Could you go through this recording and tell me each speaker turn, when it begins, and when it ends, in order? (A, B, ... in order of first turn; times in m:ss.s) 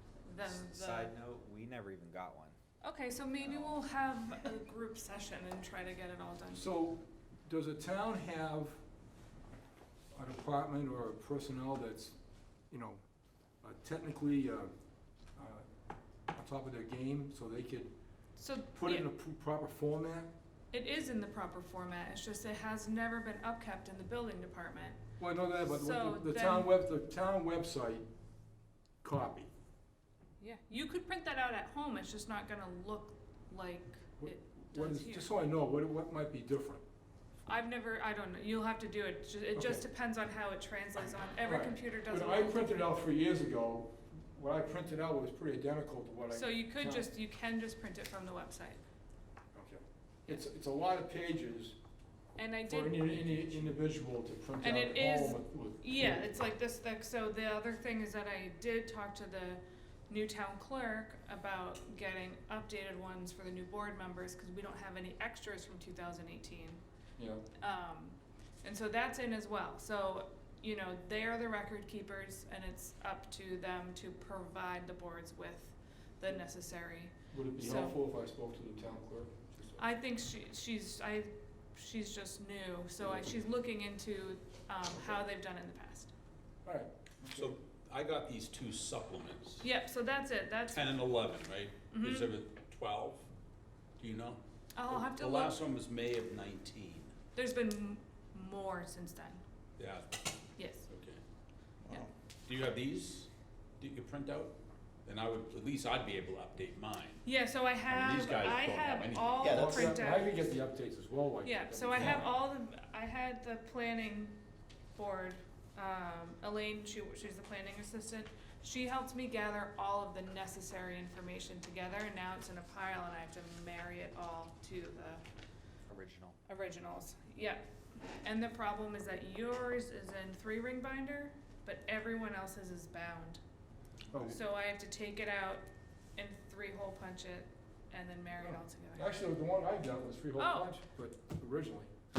0:00.2-0:01.1 A
0:00.4-0:02.6 B
0:02.8-0:06.6 A
0:03.5-0:03.8 B
0:06.5-0:08.8 C
0:10.1-0:12.2 C
0:12.7-0:13.0 C
0:13.6-0:14.7 C
0:15.3-0:15.6 C
0:16.3-0:17.9 C
0:18.4-0:19.0 A
0:18.7-0:20.3 C
0:20.7-0:25.0 A
0:25.2-0:28.0 C
0:25.6-0:26.7 A
0:29.0-0:29.5 C
0:30.4-0:35.3 A
0:34.2-0:36.8 C
0:37.4-0:42.8 A
0:39.5-0:39.8 C
0:41.4-0:47.1 C
0:46.3-0:48.8 A
0:49.5-0:51.8 C
0:52.4-0:53.2 A
0:52.6-0:56.3 C
0:54.6-1:06.8 A
1:07.2-1:07.4 C
1:07.6-1:18.0 A
1:17.3-1:19.9 C
1:19.8-1:26.1 A
1:26.6-1:27.5 C
1:27.2-1:29.6 D
1:29.6-1:31.1 A
1:30.7-1:33.3 D
1:31.9-1:32.3 A
1:34.0-1:37.1 D
1:34.8-1:35.6 A
1:37.3-1:39.4 A
1:39.8-1:40.4 D
1:40.6-1:40.9 A
1:40.9-1:41.2 D
1:42.5-1:47.2 D
1:47.2-1:50.3 A
1:47.9-1:50.0 D
1:49.4-1:52.3 C
1:51.4-1:54.4 A
1:52.0-1:52.2 D
1:54.9-2:05.2 A
2:05.9-2:06.4 B
2:06.5-2:13.4 A
2:14.1-2:14.4 C
2:14.2-2:15.6 A
2:16.2-2:19.2 A
2:18.4-2:21.9 C
2:20.4-2:20.8 A